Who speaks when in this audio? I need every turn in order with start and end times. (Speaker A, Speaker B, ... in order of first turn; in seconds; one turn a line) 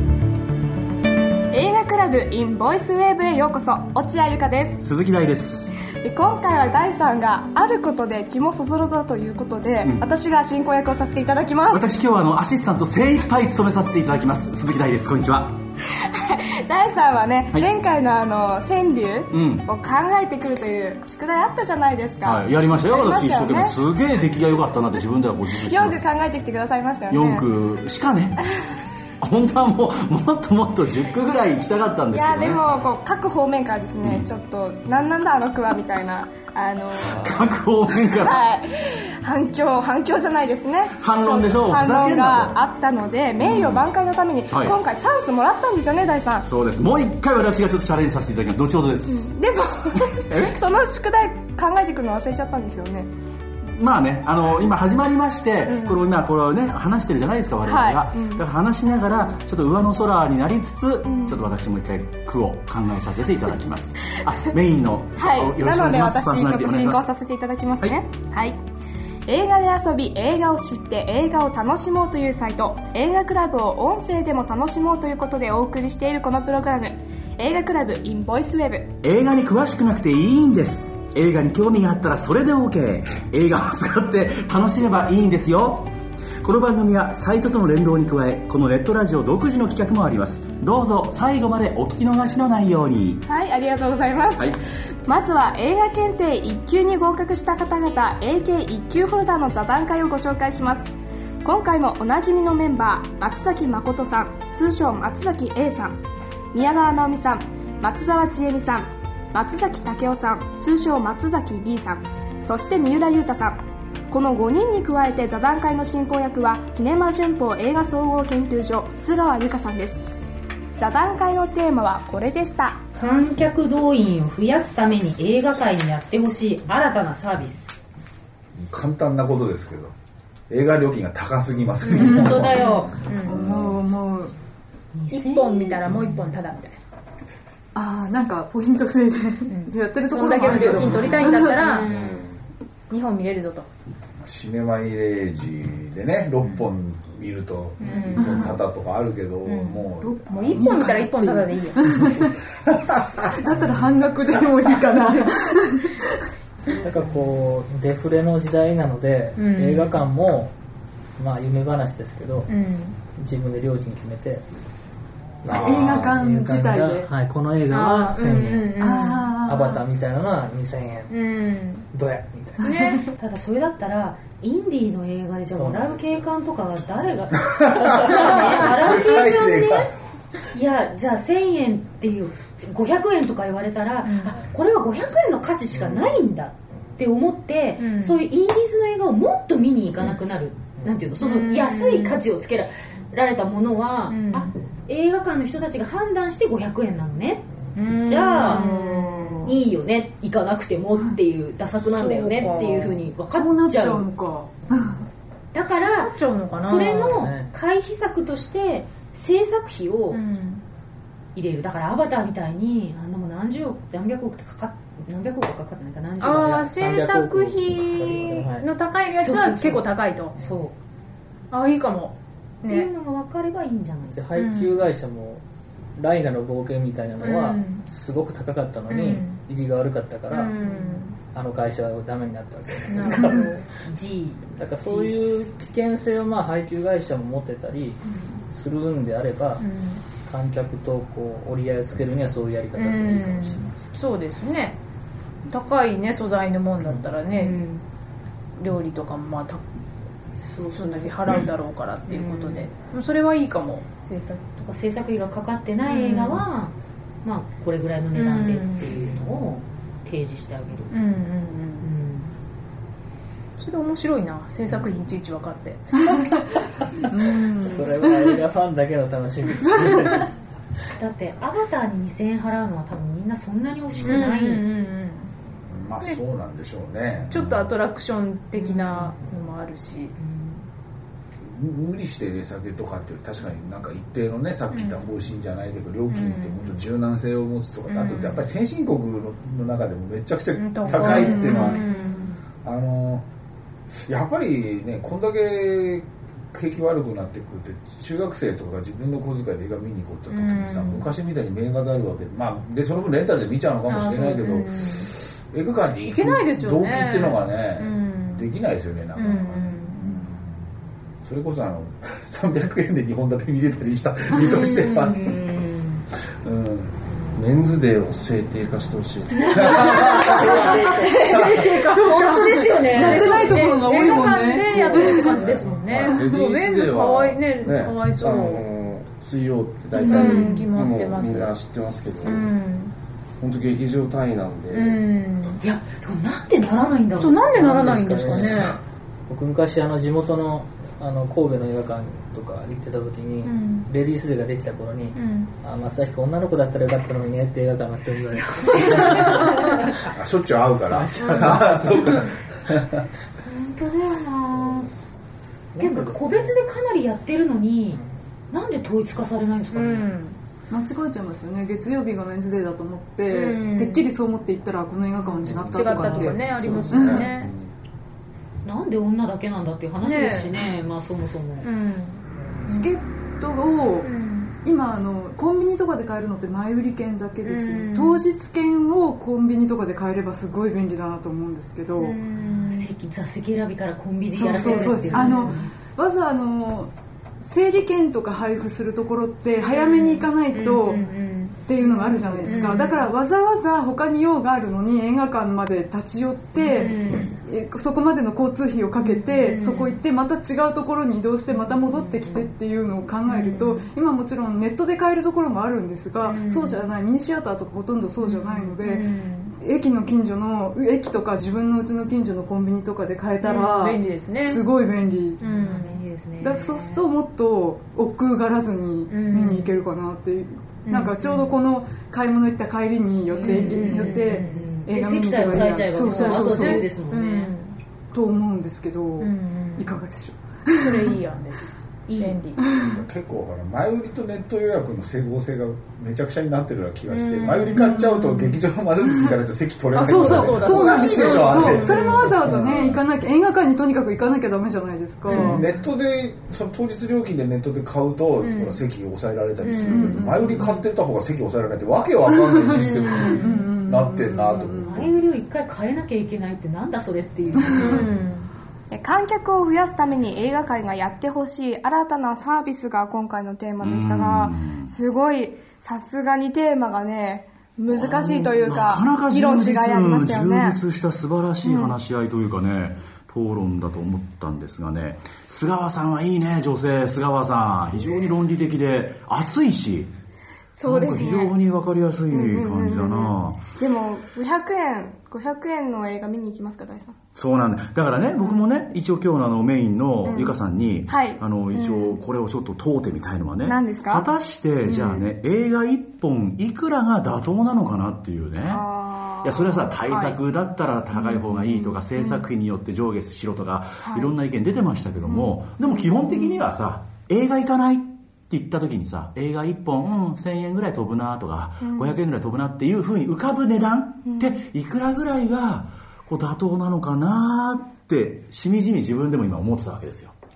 Speaker A: 1.5-4.8
Speaker B: 4.8-5.7
Speaker A: 5.9-11.9
Speaker B: 11.7-15.6
Speaker A: 16.0-23.8
Speaker B: 19.3-19.7
Speaker B: 22.2-26.0
Speaker A: 25.5-27.5
Speaker B: 27.1-28.5
Speaker B: 29.2-32.6
Speaker A: 32.1-46.5
Speaker B: 34.0-34.3
Speaker B: 37.0-38.4
Speaker B: 41.0-42.6
Speaker B: 43.4-43.9
Speaker B: 44.5-44.8
Speaker B: 46.5-49.3
Speaker A: 49.0-53.1
Speaker B: 50.0-50.6
Speaker B: 53.8-67.1
Speaker A: 55.6-56.0
Speaker A: 57.6-58.5
Speaker A: 61.0-61.5
Speaker A: 65.2-68.6
Speaker A: 69.3-79.0
Speaker B: 79.0-85.9
Speaker B: 86.4-93.2
Speaker A: 93.2-94.5
Speaker A: 95.0-106.0
Speaker A: 106.5-120.1
Speaker A: 120.8-122.8
Speaker C: 123.0-127.8
Speaker D: 128.6-129.9
Speaker D: 130.5-133.8
Speaker E: 131.8-133.5
Speaker C: 131.9-133.1
Speaker F: 132.1-132.3
Speaker F: 133.3-134.3
Speaker C: 134.9-136.4
Speaker E: 135.1-136.8
Speaker F: 137.8-141.6
Speaker E: 139.5-141.9
Speaker C: 140.6-142.3
Speaker E: 142.9-143.7
Speaker D: 144.2-150.8
Speaker E: 147.8-148.5
Speaker F: 148.2-148.5
Speaker E: 149.4-151.9
Speaker F: 150.0-152.3
Speaker D: 152.7-153.3
Speaker F: 153.3-156.2
Speaker G: 156.8-160.5
Speaker E: 159.4-160.0
Speaker G: 161.2-162.5
Speaker E: 162.5-163.0
Speaker G: 163.2-164.5
Speaker G: 165.4-168.8
Speaker F: 165.6-167.1
Speaker E: 167.7-169.3
Speaker F: 168.8-169.8
Speaker G: 169.4-171.2
Speaker E: 171.1-171.9
Speaker G: 171.9-172.7
Speaker E: 172.6-173.1
Speaker C: 173.2-179.9
Speaker G: 175.5-176.2
Speaker D: 177.5-179.9
Speaker C: 180.5-204.1
Speaker E: 184.1-184.4
Speaker E: 187.8-188.2
Speaker E: 191.2-192.2
Speaker E: 194.1-194.5
Speaker E: 197.8-199.5
Speaker F: 198.5-199.5
Speaker E: 202.0-203.0
Speaker F: 203.3-205.0
Speaker C: 205.5-210.2
Speaker E: 205.7-207.2
Speaker G: 206.7-207.5
Speaker E: 210.1-210.6
Speaker C: 211.3-216.9
Speaker E: 216.2-220.4
Speaker G: 216.2-218.7
Speaker C: 219.1-220.8
Speaker E: 221.5-222.9
Speaker C: 222.6-224.3
Speaker G: 224.1-225.4
Speaker E: 224.4-224.8
Speaker G: 226.0-230.7
Speaker E: 227.2-227.9
Speaker E: 228.9-229.4
Speaker E: 230.3-231.2
Speaker G: 231.2-233.5
Speaker E: 232.9-233.7
Speaker C: 232.9-235.4
Speaker G: 234.6-239.7
Speaker E: 239.6-240.0
Speaker G: 240.2-243.9
Speaker E: 242.8-244.8
Speaker E: 245.5-247.6
Speaker C: 247.3-247.8
Speaker E: 248.6-249.6
Speaker C: 250.4-251.5
Speaker E: 250.7-254.4
Speaker C: 252.1-252.7
Speaker C: 254.6-260.9
Speaker E: 255.9-256.4
Speaker E: 258.1-259.1
Speaker E: 260.9-261.9
Speaker C: 261.8-262.3
Speaker E: 263.6-266.4
Speaker F: 267.1-267.9
Speaker E: 267.2-267.7
Speaker G: 267.6-270.3
Speaker C: 271.0-274.7
Speaker E: 274.0-275.3
Speaker D: 275.7-277.7
Speaker E: 277.3-280.1
Speaker C: 278.5-279.3
Speaker C: 280.2-280.6
Speaker D: 281.4-291.9
Speaker E: 284.7-285.1
Speaker E: 286.1-286.6
Speaker E: 287.9-288.4
Speaker E: 290.6-292.4
Speaker C: 290.9-292.1
Speaker D: 292.6-293.2
Speaker D: 293.9-310.6
Speaker E: 300.3-301.1
Speaker E: 303.9-305.1
Speaker E: 306.1-308.5
Speaker E: 309.2-310.1
Speaker D: 311.2-315.4
Speaker C: 314.4-316.0
Speaker D: 316.4-317.0
Speaker H: 317.3-320.9
Speaker C: 319.3-323.8
Speaker D: 319.6-320.6
Speaker E: 320.1-328.6
Speaker F: 320.8-325.4
Speaker H: 323.9-332.5
Speaker F: 326.1-326.5
Speaker E: 329.9-331.6
Speaker C: 330.0-330.7
Speaker F: 330.1-330.6
Speaker E: 332.2-332.9
Speaker H: 333.4-335.0
Speaker E: 334.8-335.6
Speaker C: 335.6-338.4
Speaker E: 337.2-338.8
Speaker G: 337.5-338.7
Speaker G: 339.3-349.6
Speaker E: 343.4-343.9
Speaker E: 345.1-345.5
Speaker C: 348.5-349.5
Speaker D: 350.1-353.1
Speaker G: 350.9-352.1
Speaker E: 351.2-351.5
Speaker C: 353.4-354.9
Speaker G: 355.8-356.6
Speaker C: 355.8-360.1
Speaker E: 359.7-360.4
Speaker F: 360.7-367.2
Speaker E: 363.3-364.1
Speaker E: 365.5-367.5
Speaker C: 365.6-366.8
Speaker H: 366.5-367.5
Speaker C: 368.6-371.7
Speaker E: 370.0-370.6
Speaker E: 371.6-372.9
Speaker F: 372.7-374.1
Speaker E: 374.0-374.5
Speaker F: 374.6-382.2
Speaker E: 377.4-378.2
Speaker E: 382.0-382.9
Speaker C: 382.4-385.7
Speaker F: 384.4-391.0
Speaker E: 384.5-385.5
Speaker E: 389.6-393.1
Speaker C: 390.6-391.0
Speaker F: 391.6-409.1
Speaker E: 396.6-397.4
Speaker E: 399.0-400.0
Speaker E: 403.3-403.9
Speaker E: 406.2-406.8
Speaker E: 408.2-409.6
Speaker F: 409.6-415.4
Speaker E: 413.4-414.7
Speaker E: 415.4-416.0
Speaker C: 415.4-417.0
Speaker F: 416.4-426.9
Speaker E: 419.1-419.8
Speaker E: 420.9-421.6
Speaker E: 423.3-424.4
Speaker C: 423.3-427.6
Speaker E: 426.0-427.8
Speaker F: 428.1-431.1
Speaker E: 429.2-430.0
Speaker E: 430.8-432.7
Speaker C: 432.1-432.4
Speaker D: 432.7-443.0
Speaker E: 437.1-438.6
Speaker E: 439.9-442.4
Speaker F: 440.0-445.7
Speaker E: 445.2-445.7
Speaker D: 445.3-455.2
Speaker E: 448.4-448.8
Speaker E: 449.6-450.8
Speaker F: 449.9-450.7
Speaker F: 452.3-455.1
Speaker E: 452.7-453.7
Speaker C: 454.9-458.1
Speaker F: 457.6-458.1
Speaker E: 457.7-458.5
Speaker A: 458.9-470.8
Speaker B: 463.8-464.9
Speaker B: 467.9-480.1
Speaker A: 471.6-472.0
Speaker A: 480.8-481.6
Speaker B: 480.9-483.6
Speaker A: 482.3-487.2
Speaker B: 487.4-498.9
Speaker A: 490.2-492.2
Speaker A: 493.6-494.3
Speaker A: 494.9-495.2
Speaker A: 498.7-500.4
Speaker B: 499.4-520.3
Speaker A: 501.1-502.4
Speaker A: 504.1-504.3
Speaker A: 505.3-506.6
Speaker A: 511.8-512.2
Speaker A: 514.2-514.6